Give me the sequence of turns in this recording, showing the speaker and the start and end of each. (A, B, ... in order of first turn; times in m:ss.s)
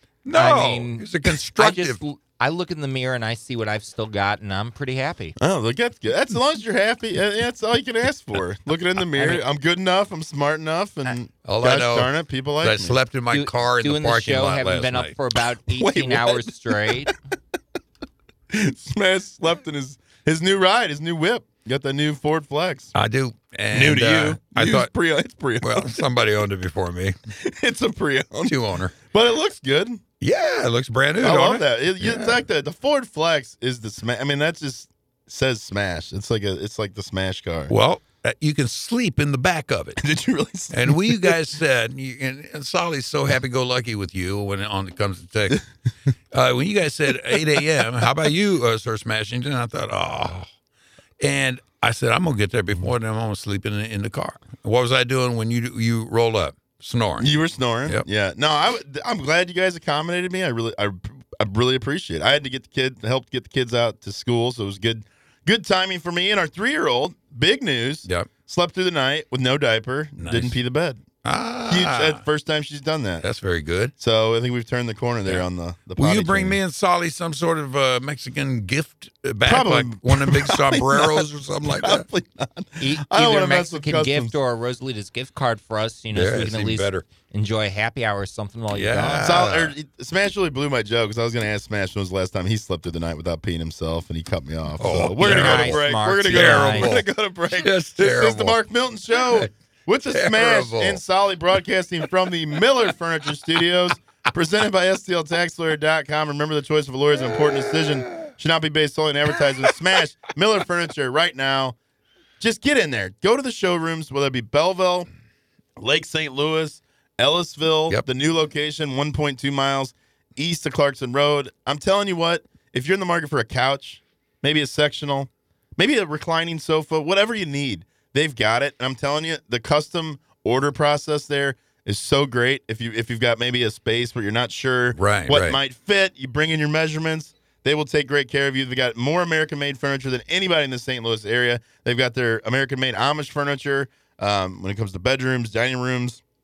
0:00.2-0:02.0 A
0:00.3-0:05.4 B
0:05.4-0:13.0 C
0:09.2-0:09.4 B
0:11.4-0:15.1 A
0:13.3-0:17.1 B
0:15.7-0:17.1 C
0:18.5-0:22.9 C
0:22.9-0:24.9 A
0:23.7-0:26.1 C
0:25.6-0:27.1 A
0:27.4-0:30.0 C
0:28.5-0:29.0 A
0:30.2-0:32.4 A
0:31.2-0:37.7 C
0:37.7-0:40.0 A
0:40.0-0:41.4 C
0:40.7-0:45.6 A
0:46.3-0:50.5 A
0:51.2-0:57.3 A
0:57.2-1:11.0 C
1:10.2-1:10.6 A
1:11.2-1:12.2 A
1:11.7-1:13.2 C
1:13.2-1:13.9 A
1:14.0-1:16.6 C
1:16.0-1:22.0 A
1:19.4-1:24.4 C
1:22.8-1:29.3 B
1:26.1-1:27.0 A
1:28.7-1:29.7 A
1:29.2-1:51.8 C
1:34.8-1:38.6 A
1:35.2-1:36.9 B
1:39.1-1:39.5 A
1:40.0-1:41.0 A
1:52.4-1:55.1 C
1:55.8-2:26.2 C
2:15.0-2:15.6 A